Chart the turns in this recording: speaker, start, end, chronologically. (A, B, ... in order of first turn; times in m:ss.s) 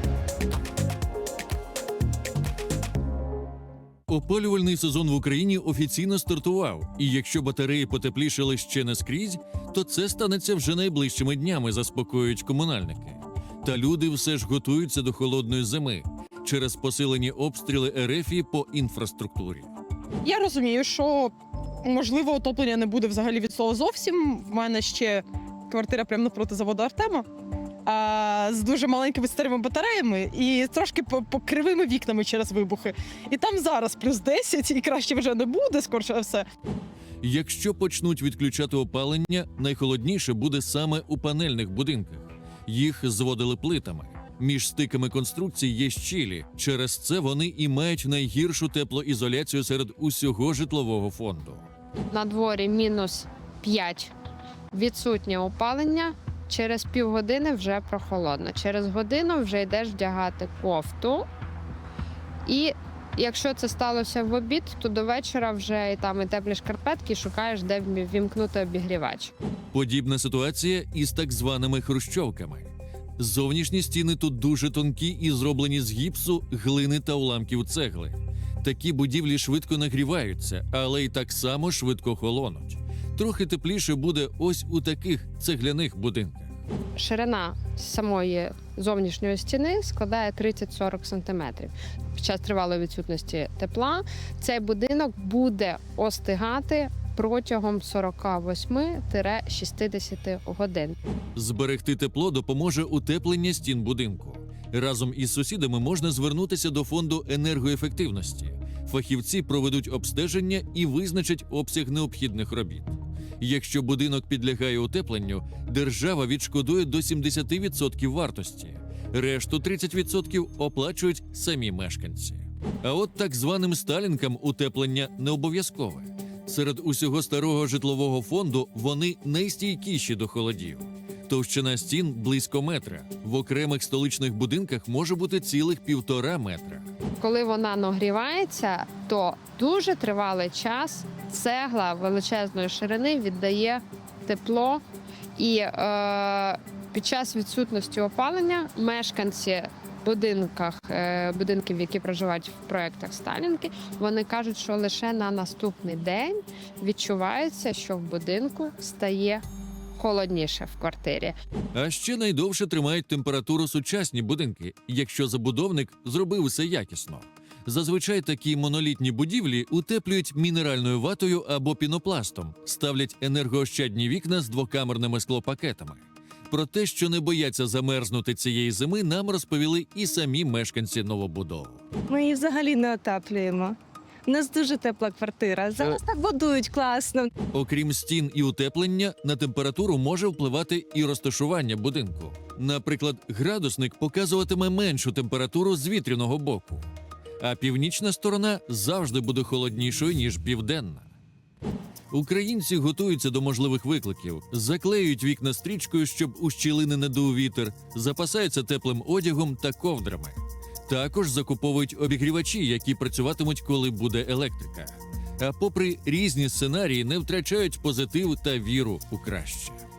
0:04.1-0:19.7 A
0:20.2-0:27.2 B
0:27.8-0:36.4 B
0:37.2-0:51.6 A
0:52.1-0:54.1 C
0:54.7-1:01.2 C
1:02.5-1:09.3 C
1:09.7-1:26.5 A
1:27.0-1:41.0 C
1:41.4-2:16.8 A
2:17.2-2:24.8 C
2:25.4-2:39.4 C
2:40.0-2:41.3 C
2:41.7-3:01.8 A
3:02.1-3:03.7 D
3:04.3-3:07.3 D
3:07.5-3:16.8 A
3:17.4-3:21.1 A
3:22.1-3:39.8 A